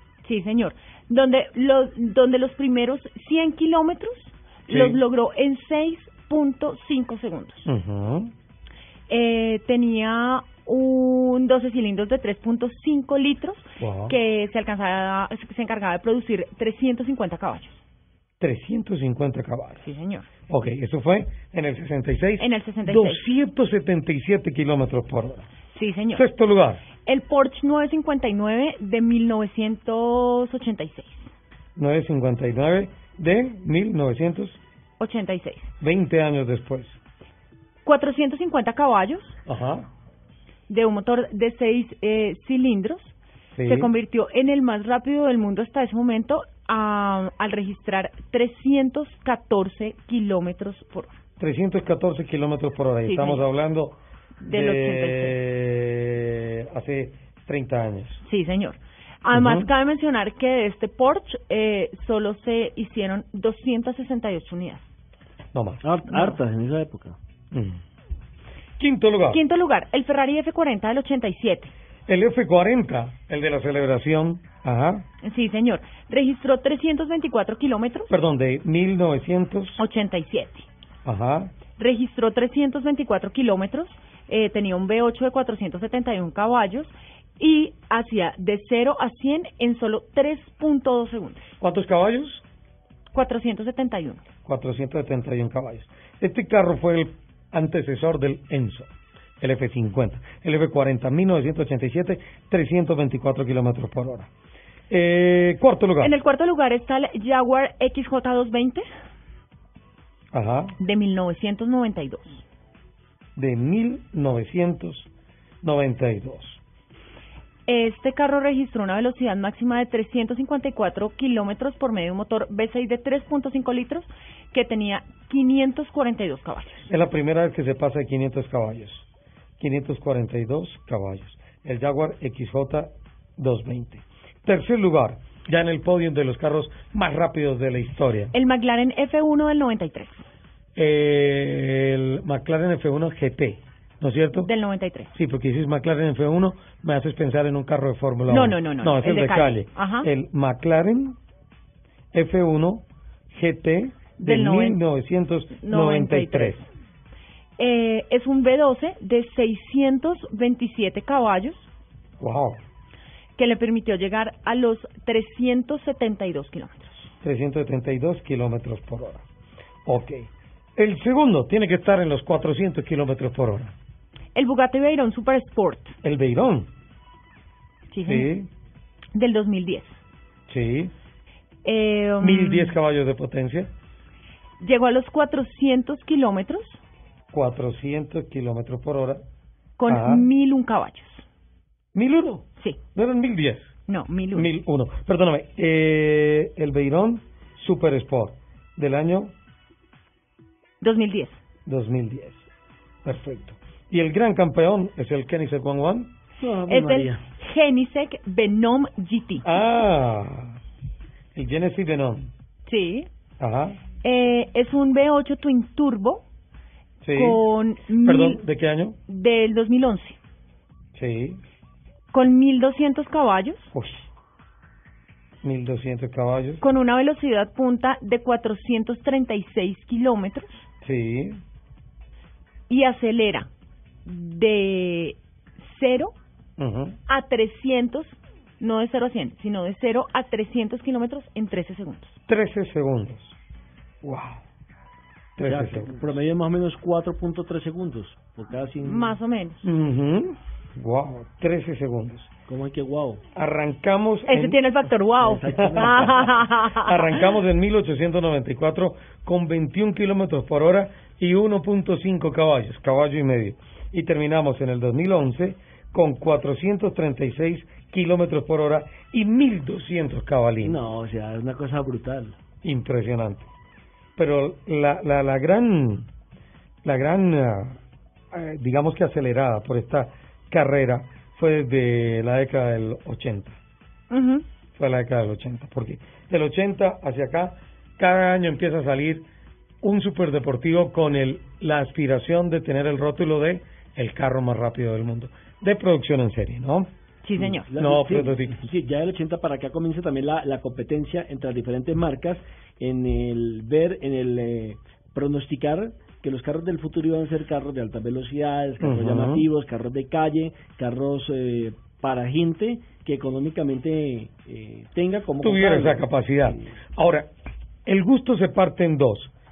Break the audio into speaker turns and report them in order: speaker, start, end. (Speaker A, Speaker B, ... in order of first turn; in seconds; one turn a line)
Speaker A: 0.2-7.7
Speaker B: 4.7-5.0
Speaker B: 7.7-8.3
Speaker A: 9.1-17.8
Speaker B: 13.8-14.2
Speaker B: 18.4-19.9
Speaker A: 19.8-20.3
Speaker B: 20.5-25.4
Speaker A: 22.4-23.2
Speaker A: 25.7-26.2
Speaker B: 26.1-26.8
Speaker A: 27.0-31.3
Speaker B: 31.8-34.6
Speaker A: 35.0-35.7
Speaker B: 35.8-37.0
Speaker A: 37.8-39.4
Speaker B: 39.5-39.9
Speaker A: 40.7-51.1
Speaker B: 43.5-43.9
Speaker B: 51.4-58.2
Speaker A: 53.0-53.5
Speaker A: 54.4-55.4
Speaker A: 58.2-64.9
Speaker B: 59.3-59.7
Speaker B: 65.5-65.8
Speaker C: 65.8-67.2
Speaker A: 66.1-66.4
Speaker B: 67.5-67.8
Speaker B: 68.8-69.4
Speaker A: 69.3-71.7
Speaker B: 72.1-75.0
Speaker A: 75.2-78.1
Speaker B: 78.1-79.8
Speaker A: 79.8-80.7
Speaker B: 81.0-81.5
Speaker A: 81.8-91.4
Speaker B: 91.6-92.4
Speaker A: 93.1-94.2
Speaker B: 94.4-98.9
Speaker B: 99.4-104.3
Speaker B: 104.9-106.1
Speaker A: 106.0-108.8
Speaker B: 110.3-110.7
Speaker A: 110.8-112.4
Speaker B: 113.3-115.1
Speaker B: 115.6-116.6
Speaker A: 117.7-126.9
Speaker B: 126.9-129.1
Speaker B: 129.6-138.3
Speaker A: 138.3-140.2
Speaker B: 140.8-144.5
Speaker A: 144.4-145.1
Speaker B: 145.1-151.2
Speaker A: 148.3-150.1
Speaker B: 152.1-156.6
Speaker A: 154.2-154.8
Speaker A: 155.6-156.7
Speaker A: 157.6-161.7
Speaker B: 162.2-162.6
Speaker A: 163.3-167.1
Speaker B: 167.2-169.2
Speaker B: 169.8-173.7
Speaker A: 174.3-175.9
Speaker B: 176.0-176.7
Speaker A: 177.9-178.3
Speaker B: 178.0-178.5
Speaker A: 179.1-180.0
Speaker B: 180.5-180.9
Speaker A: 181.6-182.8
Speaker B: 182.2-183.7
Speaker A: 184.6-186.8
Speaker B: 187.3-189.2
Speaker A: 189.8-191.2
Speaker B: 189.8-190.3
Speaker B: 191.9-193.7
Speaker A: 193.9-194.5
Speaker B: 194.3-199.3
Speaker A: 200.8-201.4
Speaker B: 201.7-202.4
Speaker B: 203.0-206.1
Speaker C: 206.4-207.2
Speaker A: 206.7-209.5
Speaker B: 209.4-210.6
Speaker B: 211.3-212.3
Speaker A: 212.7-213.1
Speaker B: 213.4-213.8
Speaker A: 214.0-216.2
Speaker B: 217.0-217.4
Speaker A: 217.1-218.4
Speaker B: 218.0-218.9
Speaker A: 219.1-220.2
Speaker B: 220.9-221.4
Speaker A: 222.1-223.7
Speaker B: 223.7-224.0
Speaker B: 225.4-226.6
Speaker A: 226.6-230.6
Speaker B: 230.8-231.4
Speaker A: 232.7-233.5
Speaker A: 234.0-236.1
Speaker B: 236.6-237.0
Speaker A: 237.1-242.2
Speaker B: 242.3-243.3
Speaker B: 244.0-244.4
Speaker B: 245.4-246.1
Speaker C: 245.4-249.2
Speaker A: 248.8-249.6
Speaker B: 249.6-252.3
Speaker C: 252.5-253.2
Speaker B: 253.3-254.7
Speaker A: 254.2-257.2
Speaker C: 255.2-256.3
Speaker B: 255.5-256.1
Speaker B: 256.6-270.8
Speaker C: 270.6-272.4
Speaker B: 272.6-273.5
Speaker B: 274.2-276.1
Speaker B: 276.8-277.8
Speaker B: 278.3-283.6
Speaker A: 284.1-284.4
Speaker B: 284.7-289.2
Speaker B: 289.8-296.9
Speaker A: 297.2-297.7
Speaker C: 297.4-316.1
Speaker B: 297.7-298.7
Speaker B: 308.8-309.4
Speaker B: 315.4-317.3
Speaker B: 317.9-319.3